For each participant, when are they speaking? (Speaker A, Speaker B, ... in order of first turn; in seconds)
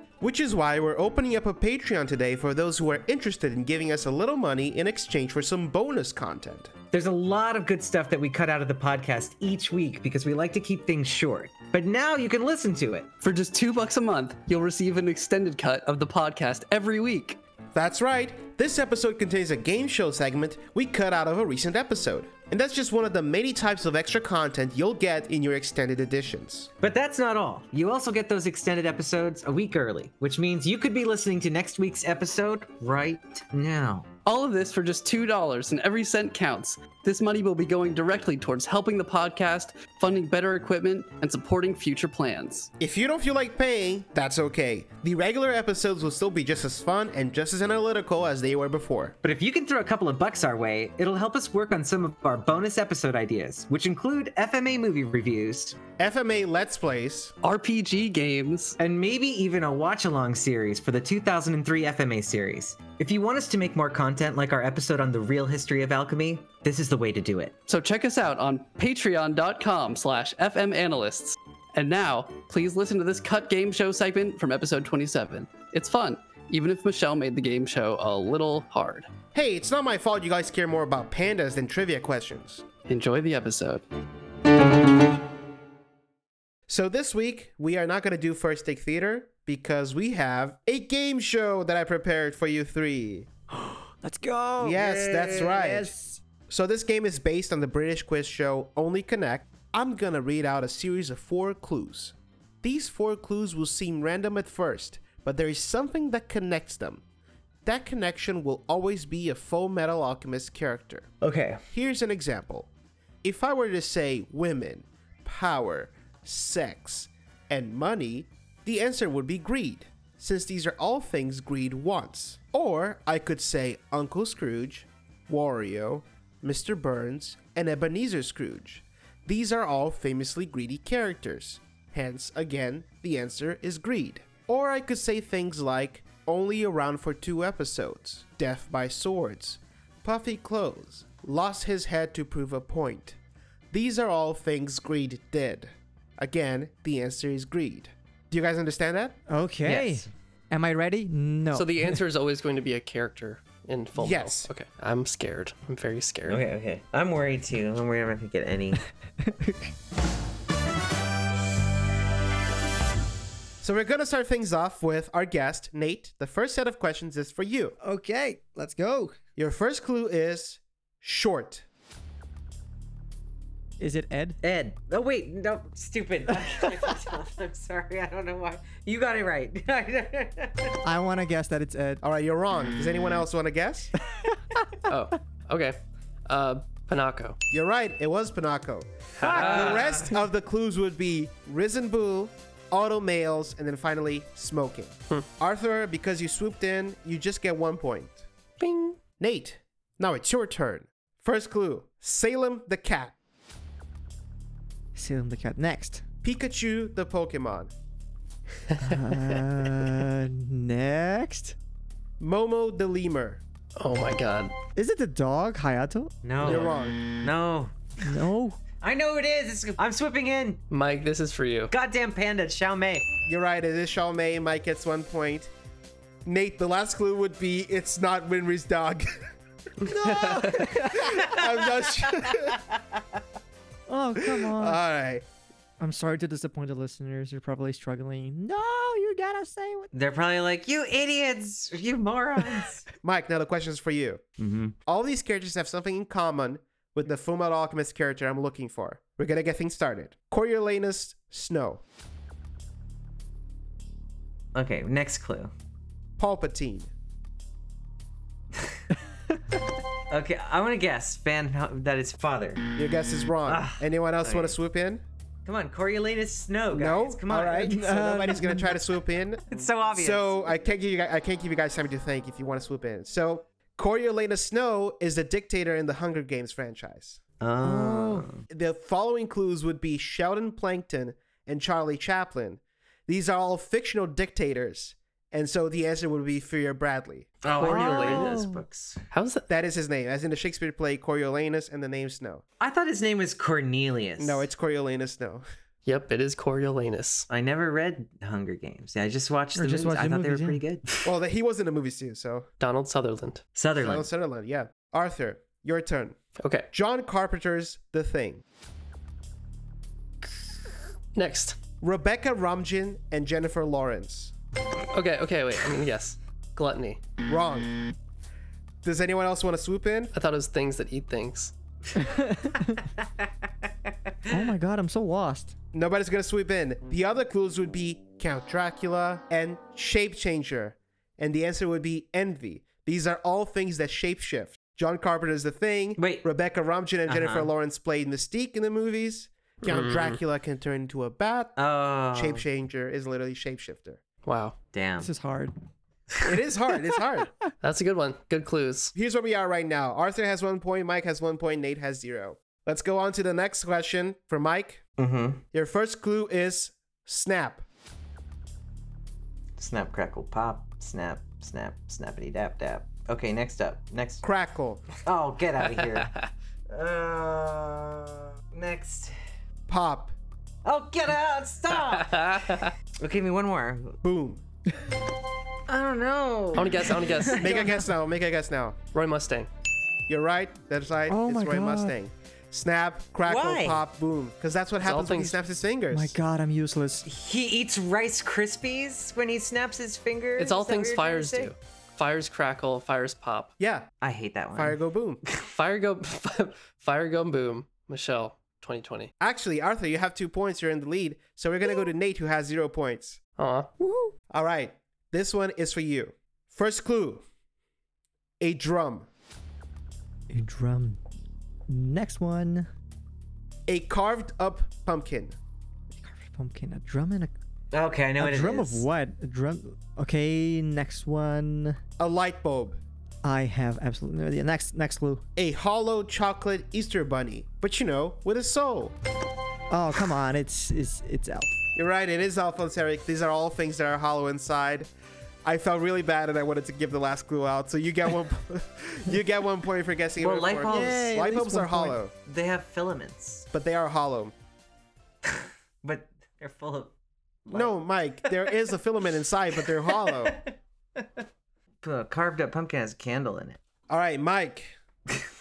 Speaker A: 0.2-6.7, 17.7-26.7, 42.8-49.1, 56.0-57.3, 79.3-82.6, 86.7-93.3, 94.6-95.9, 96.5-107.0, 107.6-111.1, 111.7-112.7, 113.2-143.2, 143.7-149.2, 153.9-154.5, 163.6-167.8, 169.4-171.6, 182.0-183.9, 187.5-198.2, 199.2-203.1, 206.2-207.7, 212.2-213.4, 216.4-217.0, 223.2-225.5, 226.2-229.2, 229.8-232.6, 234.2-235.2, 243.0-244.2, 244.8-251.8, 256.2-256.9, 262.8-265.0, 266.7-269.4, 269.9-277.2, 278.5-287.3, 289.5-292.4, 294.2-295.4, 301.0-302.5, 303.8-306.1, 306.7-308.4, 311.8-314.3, 317.2-317.7, 318.8-320.1, 325.7-341.6, 342.1-344.0, 346.2-347.3, 348.9-354.8, 355.5-357.6, 364.2-364.9, 369.7-370.1, 374.0-374.4, 377.4-378.8, 380.1-386.1, 393.6-393.9, 394.5-395.2, 399.2-403.2, 404.3-407.2, 408.4-409.1, 413.7-415.4, 422.0-422.8, 425.4-428.9, 431.7-434.9, 435.4-442.1, 443.5-444.3, 447.5-450.4, 453.9-454.7
Speaker B: 6.9-13.1, 26.8-34.1, 49.2-55.8, 58.8-67.5, 111.2-111.6, 149.6-150.0, 156.3-158.8, 174.4-180.8, 189.3-189.9, 216.2-217.7, 218.8-220.6, 221.7-223.1, 231.0-232.1, 239.9-242.8, 244.4-244.7, 254.5-255.5, 260.1-262.7, 263.4-264.5, 265.4-267.7, 269.5-270.3, 277.4-278.4, 287.4-289.0, 292.6-294.4, 297.3-300.9, 303.6-304.1, 336.0-336.2, 337.1-337.5, 341.6-342.4, 344.7-345.1, 355.0-355.4, 359.6-364.2, 365.1-366.1, 366.7-369.1, 370.6-372.4, 373.0-374.0, 375.7-377.4, 383.3-383.8, 387.0-391.5, 394.0-394.8, 417.7-418.8, 440.2-441.1, 442.2-443.4, 445.8-446.9, 447.4-447.8, 449.9-451.0, 451.8-453.6
Speaker C: 13.2-17.4, 34.2-42.7, 57.4-58.8, 67.7-79.1, 82.9-83.8
Speaker D: 93.5-96.2, 149.3-151.8, 159.2-159.7, 167.8-169.2, 173.8-174.4, 180.8-182.0, 184.2-184.6, 204.9-206.0, 208.8-211.6, 214.8-216.1, 218.0-218.6, 233.9-234.8, 235.8-239.9, 267.5-268.8, 277.6-278.3, 287.6-288.6, 299.5-300.6, 321.9-322.6, 324.3-325.5, 345.0-345.5, 381.1-381.9, 385.9-387.1, 403.8-404.1, 410.3-411.0, 411.7-412.7, 415.9-417.3, 418.2-421.8, 423.2-425.2, 429.7-431.5, 440.7-442.0
Speaker E: 151.5-156.4, 184.9-187.3, 189.2-190.0, 198.6-199.0, 213.8-214.5, 216.4-216.7, 220.7-221.7, 230.1-230.5, 287.5-288.5, 289.1-289.5, 295.9-297.3, 302.6-303.4, 306.4-306.6, 311.1-311.6, 314.9-317.0, 320.1-321.5, 339.6-340.2, 344.2-344.6, 347.6-348.9, 365.8-366.2, 371.7-372.7, 376.5-377.8, 378.9-379.5, 384.8-385.4, 390.4-393.5, 395.5-399.1, 403.4-403.7